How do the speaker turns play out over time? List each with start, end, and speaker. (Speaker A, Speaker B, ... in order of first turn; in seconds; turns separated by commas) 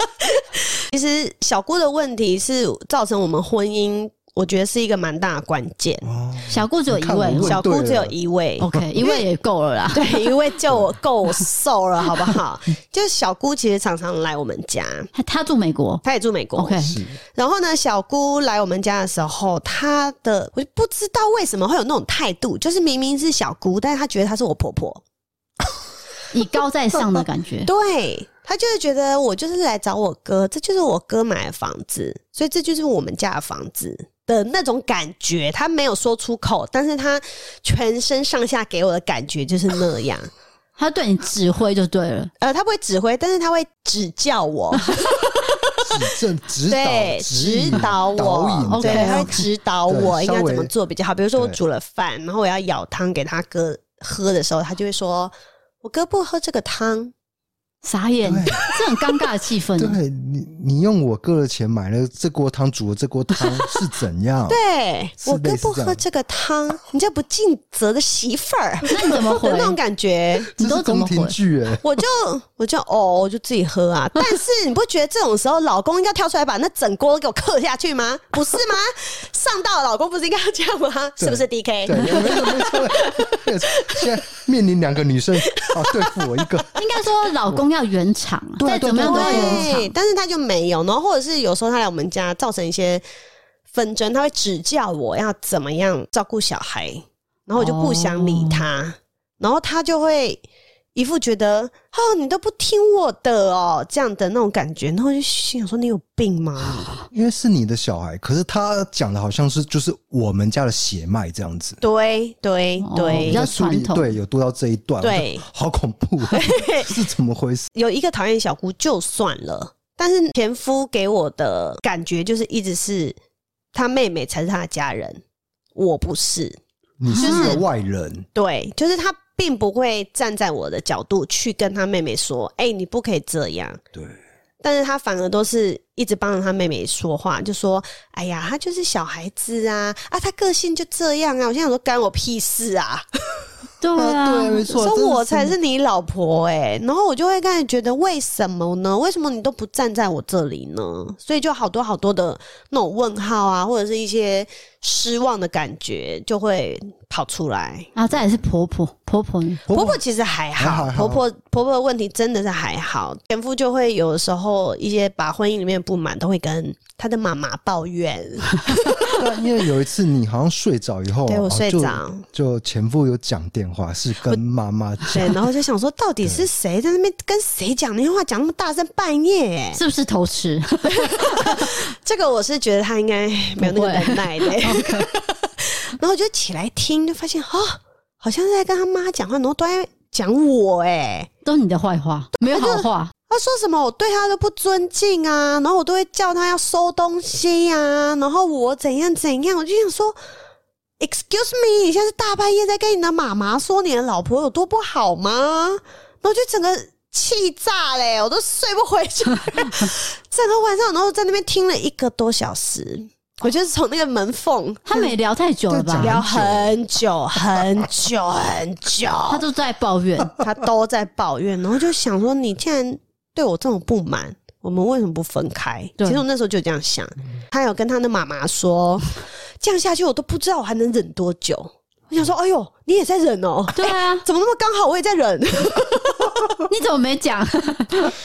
Speaker A: 0.2-6.1, Speaker B: 6.0-8.1, Speaker C: 6.5-7.6, Speaker A: 7.4-9.2, Speaker C: 8.6-10.3, Speaker A: 9.9-15.1, Speaker C: 15.1-16.0, Speaker A: 16.0-16.8, Speaker C: 16.6-17.0, Speaker B: 16.8-17.2, Speaker A: 17.3-25.0, Speaker C: 26.3-27.7, Speaker A: 27.6-40.3, Speaker C: 40.8-42.3, Speaker A: 42.4-45.8, Speaker B: 45.8-50.7, Speaker A: 46.7-57.1, Speaker C: 48.7-49.5, Speaker C: 57.8-60.0, Speaker B: 58.2-58.6, Speaker B: 59.8-64.6, Speaker A: 64.5-70.5, Speaker B: 65.2-66.0, Speaker C: 68.9-69.8, Speaker B: 70.5-72.0, Speaker C: 70.6-71.3, Speaker A: 71.8-84.1, Speaker B: 81.2-86.7, Speaker A: 85.6-86.5, Speaker C: 86.8-89.9, Speaker B: 88.6-89.7, Speaker A: 89.0-93.0, Speaker A: 93.7-100.4, Speaker C: 97.6-98.7, Speaker A: 100.9-107.0, Speaker B: 107.1-111.8, Speaker A: 111.8-113.4, Speaker C: 112.8-114.1, Speaker B: 113.1-117.7, Speaker A: 115.0-115.4, Speaker A: 116.3-116.9, Speaker A: 117.7-123.2, Speaker A: 123.7-125.2, Speaker A: 125.7-126.6, Speaker B: 127.0-128.3, Speaker C: 127.1-127.6, Speaker A: 127.2-127.6, Speaker A: 128.3-133.8, Speaker B: 133.9-134.2, Speaker A: 134.6-143.5, Speaker C: 143.8-144.7, Speaker B: 144.0-145.6, Speaker A: 144.7-157.9, Speaker C: 157.9-159.7, Speaker B: 159.7-160.0, Speaker A: 159.7-169.1, Speaker B: 160.6-161.2, Speaker B: 169.1-175.5, Speaker A: 171.3-172.2, Speaker A: 175.1-179.8, Speaker C: 179.7-181.8, Speaker A: 180.9-191.3, Speaker C: 183.6-185.1, Speaker C: 191.4-193.1, Speaker A: 192.4-200.2, Speaker A: 201.0-215.1, Speaker C: 214.9-216.2, Speaker B: 215.7-216.8, Speaker A: 216.0-219.4, Speaker C: 219.3-220.3, Speaker A: 220.4-236.4, Speaker C: 233.7-234.2, Speaker C: 236.7-238.1